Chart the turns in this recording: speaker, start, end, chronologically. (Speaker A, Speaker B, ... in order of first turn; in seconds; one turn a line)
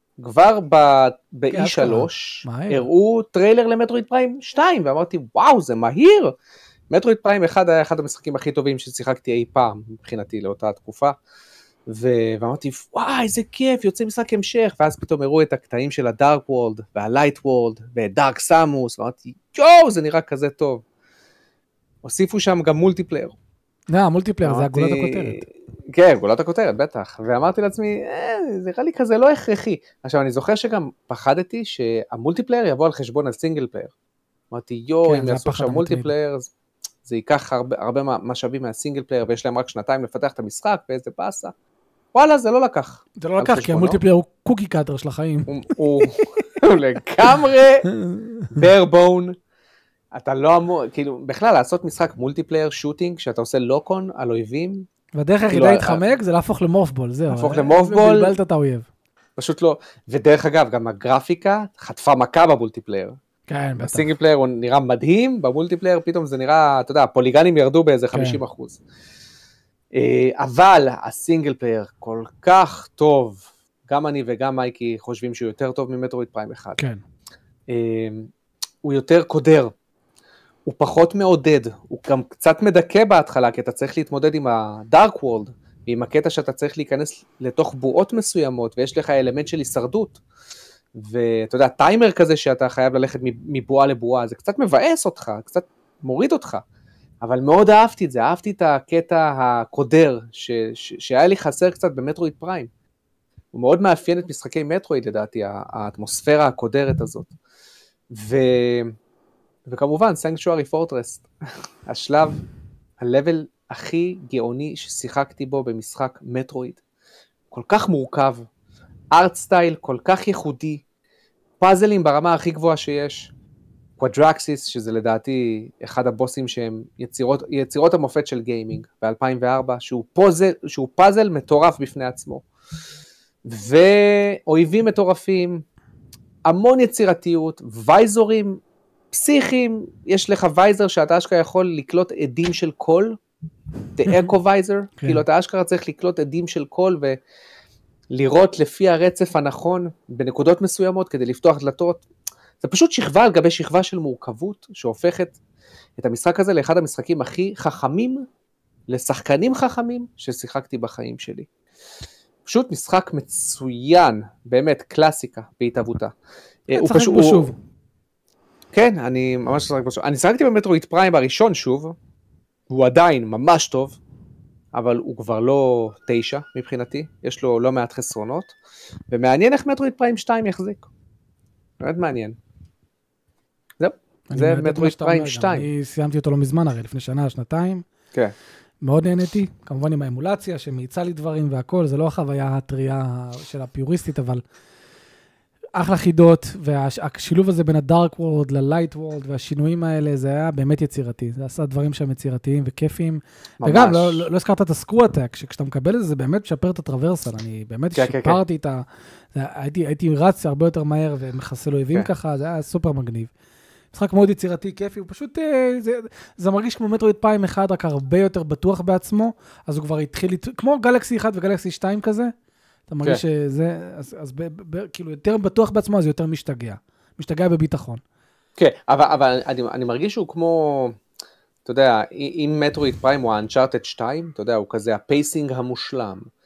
Speaker A: 0.2-6.3
Speaker B: 1.5-2.9
Speaker A: 6.9-11.2
Speaker A: 11.9-20.8
Speaker A: 22.0-23.3
Speaker B: 23.9-25.4
Speaker A: 24.4-33.9
Speaker A: 34.5-36.5
Speaker B: 35.0-36.1
Speaker A: 37.0-41.5
Speaker A: 42.1-44.0
Speaker B: 43.2-45.5
Speaker A: 45.5-47.9
Speaker B: 47.9-48.5
Speaker A: 48.5-49.4
Speaker A: 50.1-54.9
Speaker B: 55.1-58.9
Speaker A: 55.5-56.0
Speaker A: 57.3-58.4
Speaker A: 59.4-63.2
Speaker B: 63.5-64.1
Speaker A: 63.8-68.8
Speaker B: 68.1-68.4
Speaker A: 69.9-76.8
Speaker A: 77.7-78.3
Speaker A: 78.8-79.7
Speaker A: 80.7-90.2
Speaker A: 90.9-96.6
Speaker A: 97.2-102.7
Speaker A: 103.5-107.3
Speaker A: 108.1-108.9
Speaker A: 109.7-111.3
Speaker A: 111.8-112.4
Speaker A: 113.0-116.8
Speaker A: 117.5-118.5
Speaker A: 119.1-120.8
Speaker A: 121.6-123.3
Speaker A: 124.0-132.4
Speaker A: 133.4-135.6
Speaker A: 136.4-143.2
Speaker A: 143.9-147.2
Speaker B: 145.0-145.2
Speaker A: 148.1-152.0
Speaker A: 152.6-155.4
Speaker A: 156.0-158.2
Speaker A: 158.9-161.5
Speaker A: 162.4-166.1
Speaker A: 166.7-167.5
Speaker B: 166.7-167.6
Speaker A: 168.7-171.9
Speaker A: 172.7-174.0
Speaker A: 174.7-178.5
Speaker A: 179.1-180.8
Speaker A: 181.8-182.4
Speaker A: 183.8-185.7
Speaker B: 184.3-187.8
Speaker B: 188.8-194.4
Speaker B: 195.7-213.3
Speaker A: 203.6-204.3
Speaker A: 207.9-208.4
Speaker B: 213.9-222.3
Speaker B: 222.9-228.0
Speaker A: 228.6-231.0
Speaker A: 231.6-236.3